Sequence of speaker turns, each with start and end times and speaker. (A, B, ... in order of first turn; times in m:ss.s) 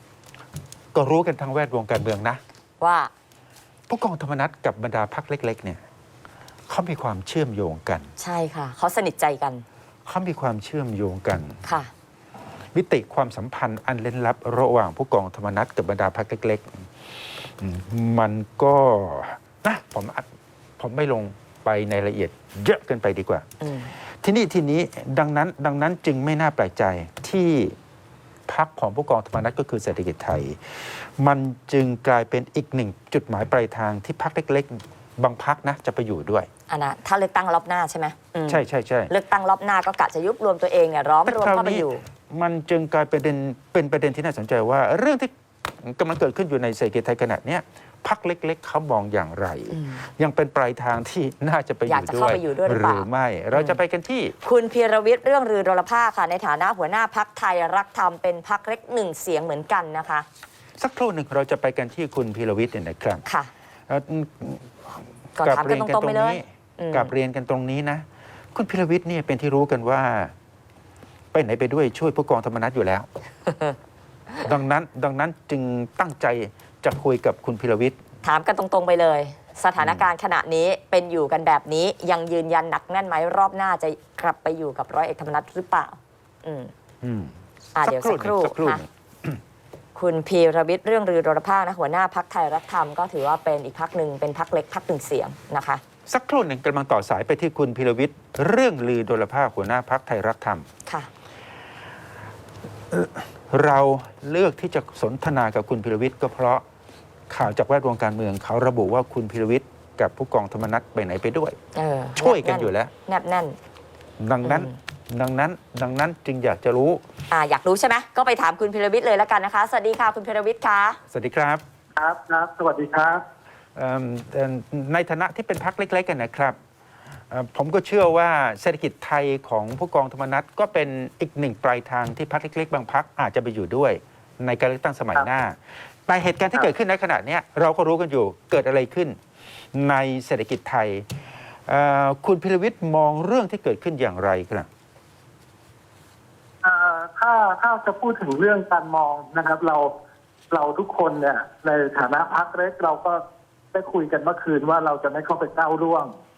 0:00.9-0:02.4 A
0:02.8-0:03.1 B
0:03.9-0:05.8 A
0:06.7-0:08.1 A
0:08.2-0:09.6 B
0:10.0-0:11.6 A
0:11.6-0:11.9 B
0:12.7-0:20.3 A
0:20.8-0:27.8 A
0:28.5-0:36.5 A
0:36.7-0:42.0 B
0:38.5-0:39.1 A
0:41.2-0:54.4 A
0:49.7-0:50.0 B
0:51.8-0:53.8 B
0:54.4-1:00.2 B
1:00.8-1:03.2 A
1:03.2-1:03.5 B
1:03.9-1:10.3 A
1:05.4-1:07.1 B
1:11.3-1:13.1 A
1:13.5-1:13.7 B
1:14.4-1:18.0 A
1:18.2-1:26.7 B
1:19.8-1:20.1 A
1:27.0-1:29.4 A
1:27.7-1:28.8 B
1:30.0-1:35.8 B
1:36.1-1:40.6 A
1:42.9-1:46.6 A
1:47.3-1:51.6 A
1:51.7-1:53.6 B
1:52.2-1:52.9 A
1:54.2-1:57.0 A
1:54.4-1:54.8 B
1:57.3-2:01.0 B
2:01.1-2:01.6 A
2:02.0-2:03.2 C
2:03.7-2:06.6 A
2:07.3-2:19.2 A
2:19.7-2:21.0 A
2:21.6-2:24.7 A
2:26.6-2:29.9 C
2:30.5-2:33.2 C
2:33.7-2:36.1 C